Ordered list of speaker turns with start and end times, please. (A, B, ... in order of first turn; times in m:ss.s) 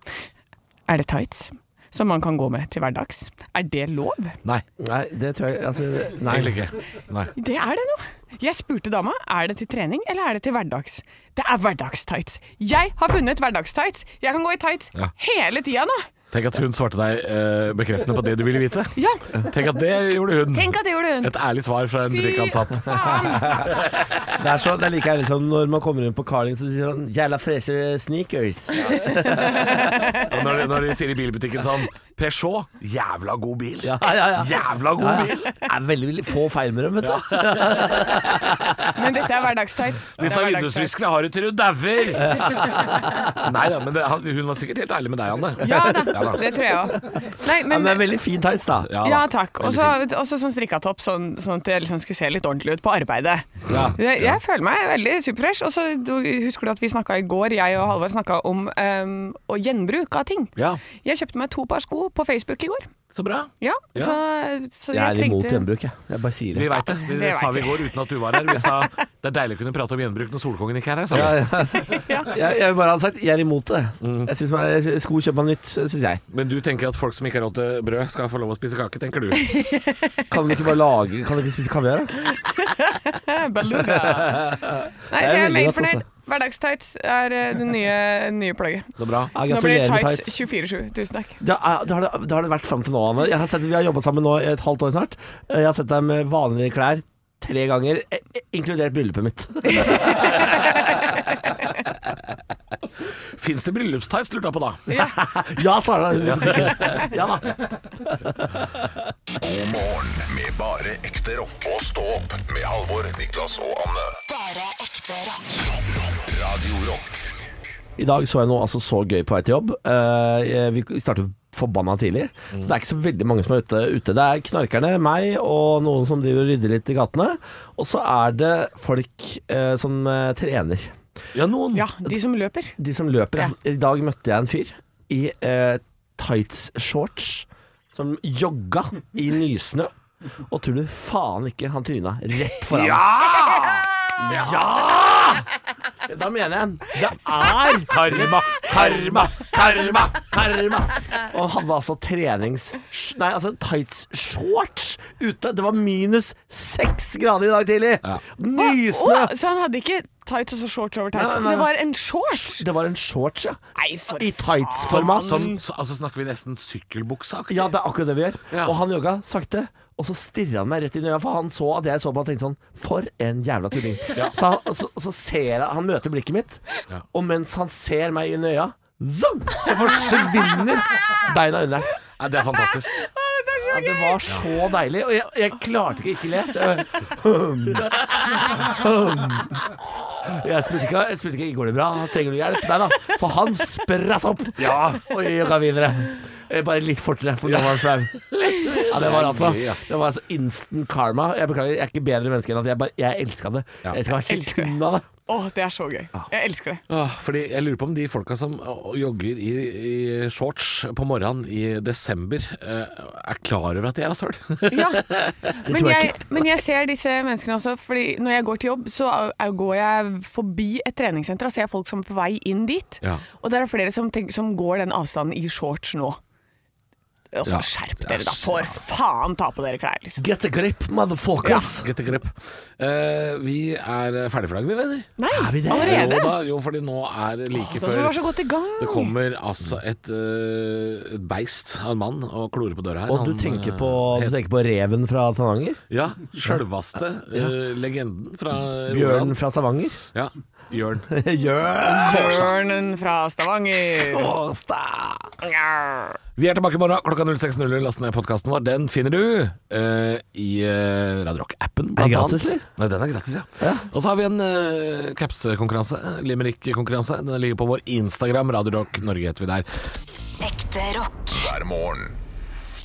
0:00.9-0:04.4 A
0:04.8-0:06.6 B
0:06.3-0:07.3 C
0:07.4-0:16.1 A
0:16.3-0:24.1 C
0:19.0-0:19.2 A
0:20.5-0:21.3 A
0:22.1-0:23.7 A
0:24.3-0:30.2 B
0:28.8-0:30.3 A
0:30.2-0:35.5 C
0:33.8-0:38.7 B
0:37.0-0:38.8 C
0:39.0-0:40.9 A
0:40.2-0:46.5 C
0:42.2-0:43.5 B
0:45.6-0:48.0 A
0:45.6-0:46.4 B
0:47.0-0:48.9 B
0:48.9-0:50.0 C
0:49.0-1:02.9 A
0:53.7-0:54.0 B
0:53.7-0:54.2 C
1:00.6-1:00.8 C
1:03.1-1:04.2 C
1:03.6-1:05.6 A
1:04.9-1:06.7 B
1:06.5-1:11.7 C
1:06.8-1:08.9 A
1:11.1-1:16.2 B
1:11.8-1:12.3 A
1:14.0-1:14.3 C
1:16.3-1:19.5 C
1:19.4-1:20.3 A
1:20.3-1:22.1 B
1:22.3-1:31.4 A
1:23.8-1:26.0 B
1:29.0-1:29.3 C
1:29.3-1:30.3 B
1:31.4-1:40.9 B
1:39.7-1:41.1 A
1:43.4-1:44.9 C
1:44.9-1:45.2 A
1:45.0-1:49.0 B
1:46.3-1:47.1 C
1:49.4-1:54.2 D
1:54.3-1:55.6 E
1:55.8-1:57.2 D
1:58.0-2:11.0 B
2:11.3-2:11.9 C
2:11.7-2:12.8 A
2:12.8-2:19.9 B
2:20.5-2:23.1 B
2:22.7-2:23.9 C
2:24.2-2:25.5 B
2:26.1-2:39.3 B
2:27.9-2:30.1 C
2:38.6-2:42.7 A
2:41.1-2:41.7 B
2:42.3-2:45.6 B
2:43.8-2:45.6 A
2:44.8-2:47.7 C
2:47.5-2:56.6 B
2:48.5-2:48.8 C
2:57.1-3:01.9 B
3:02.2-3:03.0 C
3:02.8-3:04.3 A
3:03.7-3:07.9 B
3:07.9-3:08.5 C
3:08.6-3:09.6 B
3:10.2-3:25.1 B
3:14.6-3:15.1 C
3:17.5-3:19.9 C
3:24.2-3:24.8 A
3:25.3-3:26.8 A
3:26.9-3:35.4 C
3:34.7-3:35.1 A
3:35.7-3:36.2 B
3:35.7-3:46.2 A
3:47.3-3:50.2 A
3:47.5-3:48.7 C
3:50.2-3:51.9 B
3:51.4-3:51.7 A
3:51.8-3:55.1 C
3:55.2-3:56.4 A
3:55.3-3:56.1 B
3:55.7-3:58.2 C
3:57.6-3:59.1 A
3:58.8-4:04.3 C
4:03.1-4:05.8 B
4:05.9-4:09.4 C
4:08.9-4:10.0 B
4:10.1-4:11.1 C
4:11.1-4:12.5 B
4:11.9-4:14.3 A
4:13.9-4:15.3 B
4:15.4-4:16.2 A
4:16.4-4:29.7 C
4:22.0-4:22.6 B
4:23.6-4:23.9 B
4:30.4-4:31.4 E
4:31.3-4:32.2 D